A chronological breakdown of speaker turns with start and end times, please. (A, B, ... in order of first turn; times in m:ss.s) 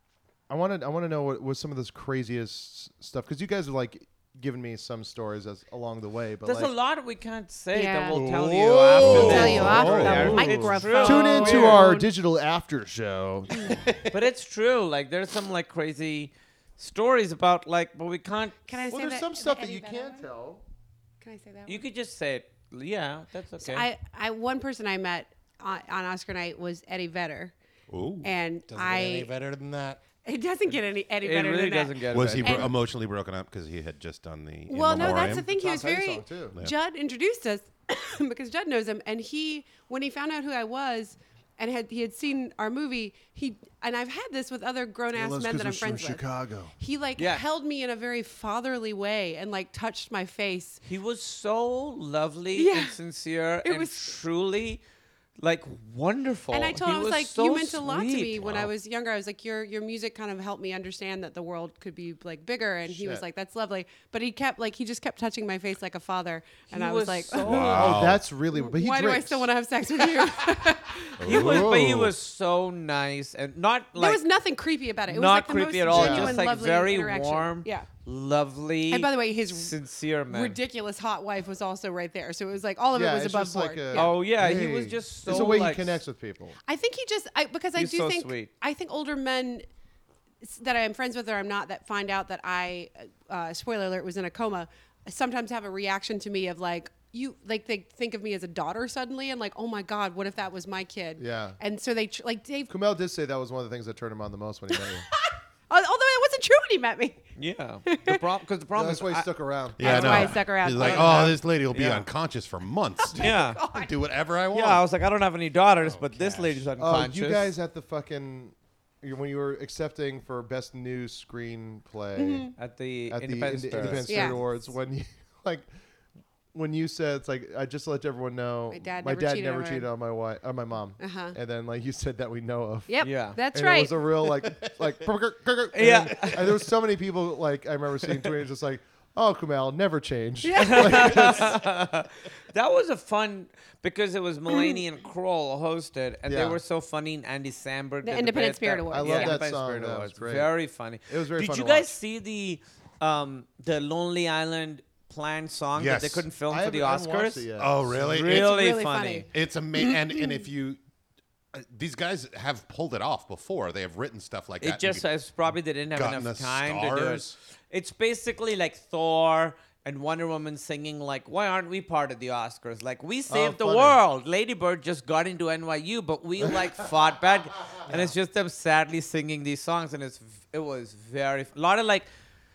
0:00.5-0:06.7 A
0:06.4-0:11.9 B
0:07.7-0:08.2 C
0:08.1-0:14.1 A
0:09.0-0:10.4 D
0:09.0-0:12.1 C
0:14.1-0:18.8 B
0:18.7-0:20.2 C
0:18.9-0:20.6 A
0:21.2-0:21.8 C
0:21.6-0:23.9 B
0:23.6-0:27.5 C
0:27.9-0:28.3 D
0:28.2-0:29.3 C
0:28.7-0:30.0 E
0:30.2-0:32.7 C
0:31.2-0:32.7 B
0:32.1-0:35.4 D
0:34.7-0:46.2 C
0:34.9-0:36.6 A
0:45.1-0:46.7 A
0:46.8-0:50.8 C
0:47.2-0:47.4 B
0:50.8-0:54.8 B
0:52.5-0:52.9 C
0:53.6-0:54.1 C
0:55.4-0:58.5 B
0:56.5-1:07.8 C
0:58.4-0:58.7 D
1:02.9-1:03.2 A
1:06.7-1:08.0 B
1:07.4-1:08.2 D
1:07.5-1:09.5 A
1:08.5-1:11.4 C
1:11.2-1:12.1 D
1:11.2-1:14.2 B
1:11.3-1:12.1 A
1:14.0-1:17.9 C
1:15.1-1:20.6 B
1:15.9-1:16.4 A
1:18.9-1:19.7 C
1:20.3-1:24.1 C
1:22.9-1:26.6 A
1:23.9-1:26.0 B
1:26.6-1:29.7 C
1:27.8-1:28.5 B
1:30.4-1:42.7 C
1:41.2-1:41.6 A
1:42.7-1:45.1 A
1:45.7-1:47.2 C
1:47.4-1:49.3 B
1:47.9-1:48.2 C
1:48.7-1:51.3 A
1:49.8-1:54.8 D
1:49.8-1:51.4 C
1:51.7-1:52.0 B
1:53.0-1:53.9 C
1:53.2-1:53.6 B
1:54.5-1:57.5 B
1:55.8-1:56.6 E
1:56.8-2:02.5 A
2:02.2-2:02.5 C
2:02.6-2:04.4 B
2:03.1-2:05.7 A
2:04.0-2:04.4 C
2:06.5-2:21.6 A
2:08.7-2:09.9 C
2:11.0-2:11.3 C
2:12.9-2:14.0 C
2:13.0-2:13.4 B
2:15.7-2:16.6 B
2:20.4-2:21.5 C
2:20.6-2:39.2 B
2:24.5-2:24.8 C
2:26.3-2:26.6 A
2:28.0-2:29.4 C
2:28.9-2:30.5 A
2:31.1-2:32.0 A
2:35.7-2:36.2 D
2:36.5-2:38.0 A
2:37.6-2:38.6 D
2:38.2-2:39.3 C
2:39.3-2:40.8 D
2:39.8-2:40.4 C
2:41.5-2:45.0 D
2:44.6-3:02.1 B
2:45.9-2:47.4 D
2:53.3-2:54.0 A